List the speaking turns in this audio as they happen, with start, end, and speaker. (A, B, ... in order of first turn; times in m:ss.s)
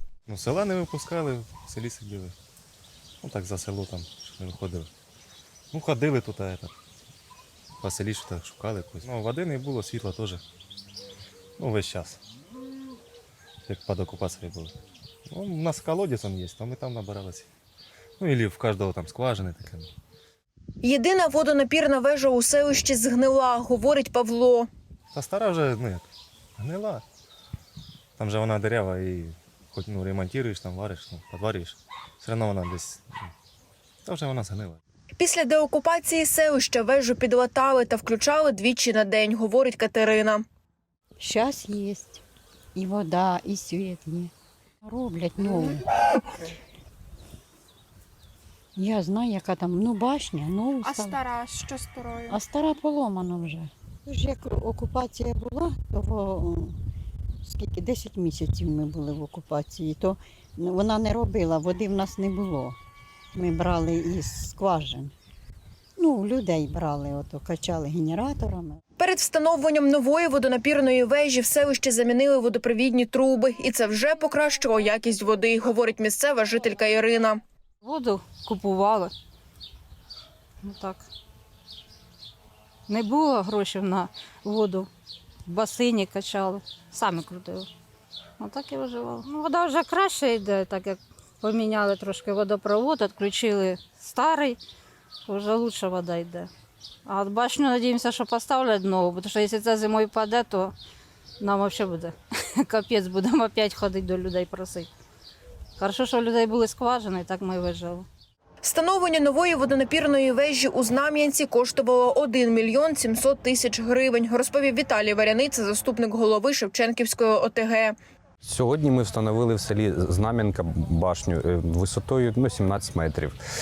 0:00.3-0:02.3 A
0:03.2-0:04.9 A
0:05.7-0:06.7 A
0:07.8-0:10.4 A
0:11.6-0:12.2 A
0:13.6-0:14.7 A
0:15.3-0:17.5 A
0:18.2-0:19.9 A
0:20.8-0:24.7 B
0:25.1-0:27.0 A
0:28.2-0:33.3 A
0:34.0-0:34.8 A
0:35.2-0:40.4 B
0:41.2-0:42.2 C
0:42.7-0:44.3 C
0:44.8-0:45.9 C
0:48.8-0:51.2 C
0:50.8-0:52.3 B
0:52.2-0:56.8 C
0:57.4-1:02.8 C
1:03.3-1:05.1 C
1:06.0-1:08.8 C
1:09.0-1:17.4 B
1:17.8-1:19.1 D
1:20.6-1:21.1 D
1:22.9-1:24.9 D
1:25.4-1:27.7 D
1:28.4-1:34.6 D
1:35.2-1:36.5 D
1:37.0-1:40.7 D
1:41.4-1:44.9 D
1:45.8-1:48.0 D
1:48.6-1:57.9 B
1:58.4-2:03.4 E